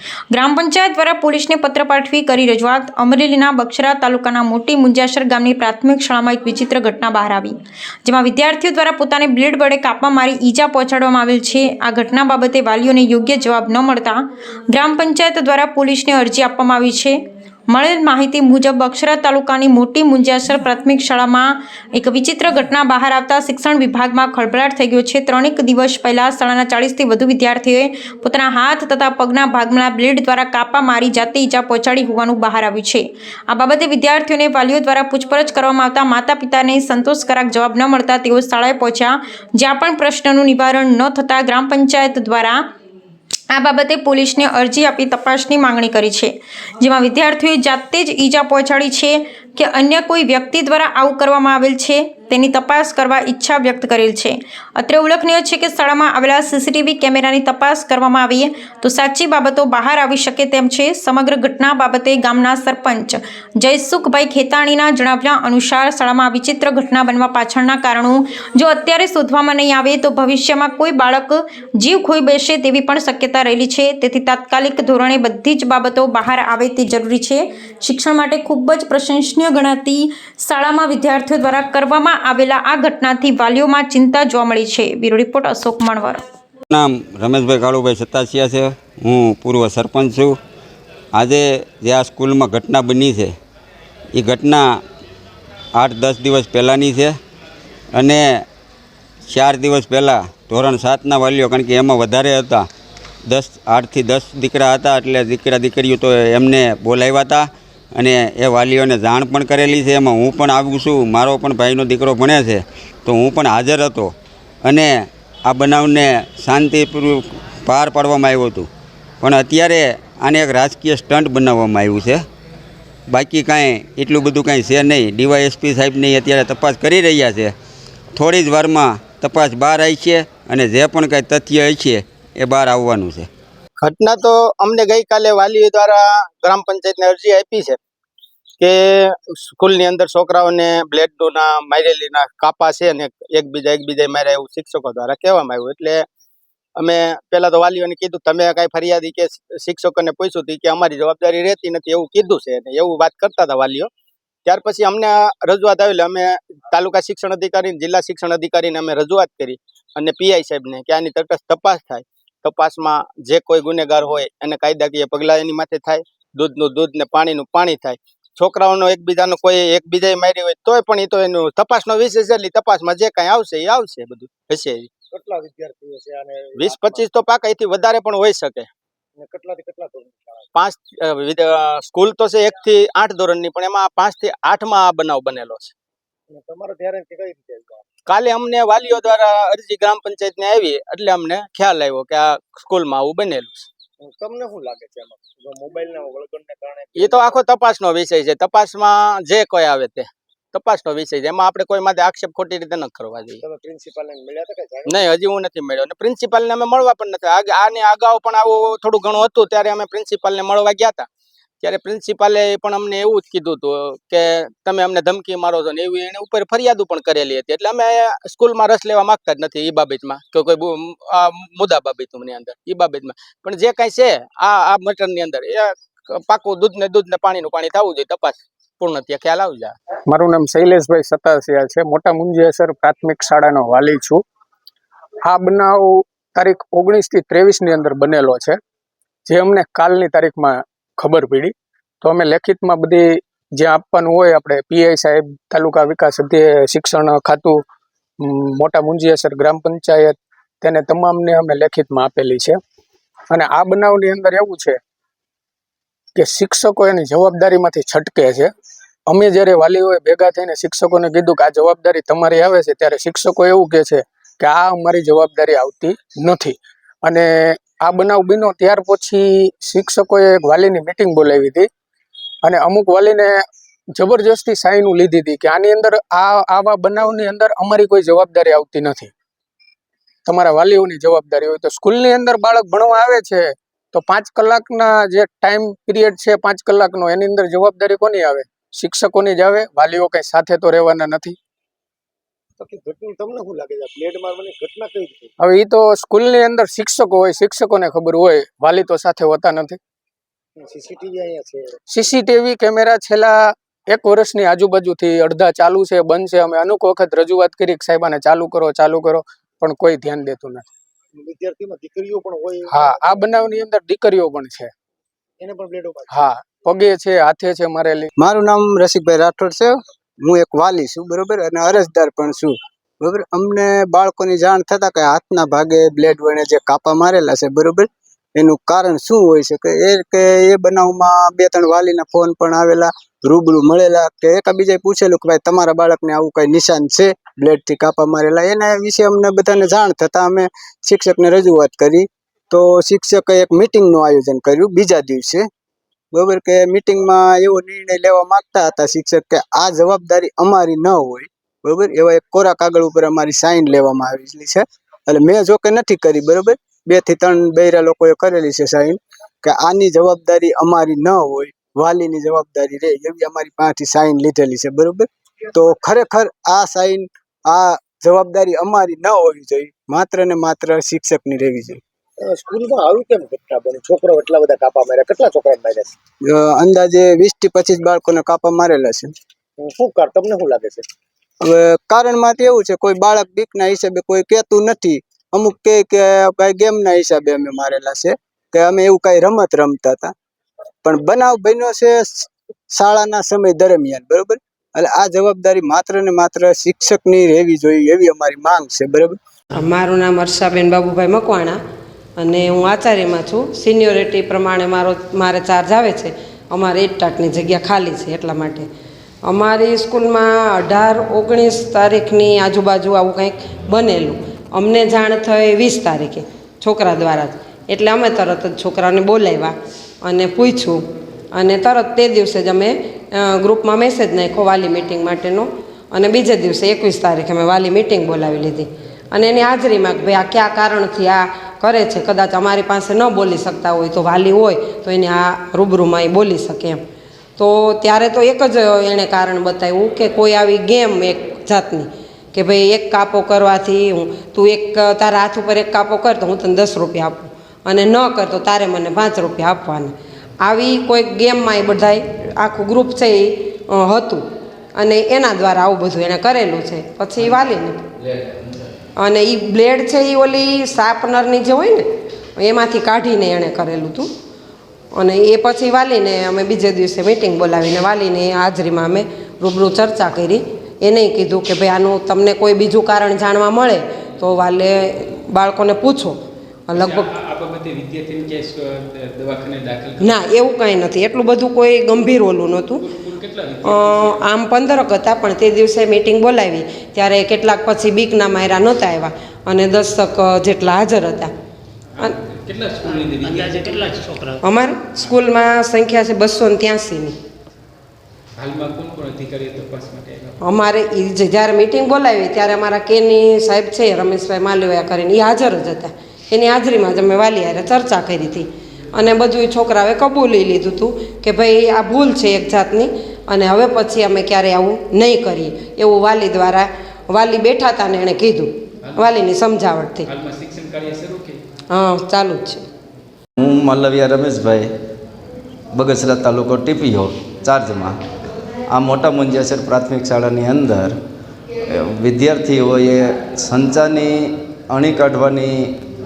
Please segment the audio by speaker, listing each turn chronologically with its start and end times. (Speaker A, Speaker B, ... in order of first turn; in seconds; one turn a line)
Speaker A: 0.3-42.6
Speaker A: 43.5-86.2
Speaker B: 86.7-90.4
Speaker B: 91.1-93.3
Speaker B: 94.1-94.8
Speaker B: 95.8-97.2
Speaker B: 97.9-98.4
Speaker B: 99.3-102.7
Speaker B: 103.2-114.1
Speaker B: 114.6-118.7
Speaker B: 119.2-122.2
Speaker B: 123.1-127.5
Speaker B: 128.1-133.3
Speaker C: 133.8-137.8
Speaker C: 138.6-146.1
Speaker C: 146.8-153.9
Speaker C: 154.4-174.9
Speaker D: 175.2-177.1
Speaker C: 176.6-178.7
Speaker D: 179.2-180.4
Speaker C: 180.5-185.7
Speaker D: 186.3-187.8
Speaker C: 188.1-193.7
Speaker D: 194.1-197.5
Speaker C: 196.9-203.4
Speaker D: 203.4-205.0
Speaker C: 204.8-211.1
Speaker C: 211.6-229.7
Speaker E: 230.1-234.2
Speaker E: 235.2-238.6
Speaker E: 239.3-247.6
Speaker E: 248.2-252.6
Speaker E: 253.3-254.8
Speaker E: 256.1-258.5
Speaker E: 259.1-271.7
Speaker E: 272.4-279.1
Speaker E: 280.2-291.4
Speaker D: 292.6-295.3
Speaker E: 295.4-299.8
Speaker D: 300.6-301.8
Speaker E: 301.9-310.6
Speaker D: 311.2-313.0
Speaker E: 312.7-314.7
Speaker D: 315.4-316.2
Speaker E: 316.1-318.1
Speaker F: 318.2-345.5
Speaker F: 346.1-371.8
Speaker D: 372.3-375.9
Speaker F: 376.2-379.1
Speaker D: 379.6-380.8
Speaker F: 381.4-390.1
Speaker F: 390.8-399.1
Speaker G: 399.5-401.6
Speaker G: 402.2-408.7
Speaker G: 409.2-420.8
Speaker G: 421.3-436.8
Speaker G: 437.4-454.2
Speaker G: 454.7-457.8
Speaker G: 459.0-461.8
Speaker G: 462.4-464.1
Speaker G: 464.9-476.2
Speaker G: 476.7-477.1
Speaker H: 477.2-480.0
Speaker G: 480.0-482.9
Speaker H: 483.1-483.6
Speaker G: 483.6-491.3
Speaker H: 492.5-494.1
Speaker G: 494.4-497.1
Speaker H: 498.4-500.3
Speaker G: 500.4-520.1
Speaker H: 520.2-521.4
Speaker G: 521.7-522.6
Speaker I: 523.4-524.7
Speaker I: 525.7-527.9
Speaker I: 528.7-530.9
Speaker I: 531.7-535.8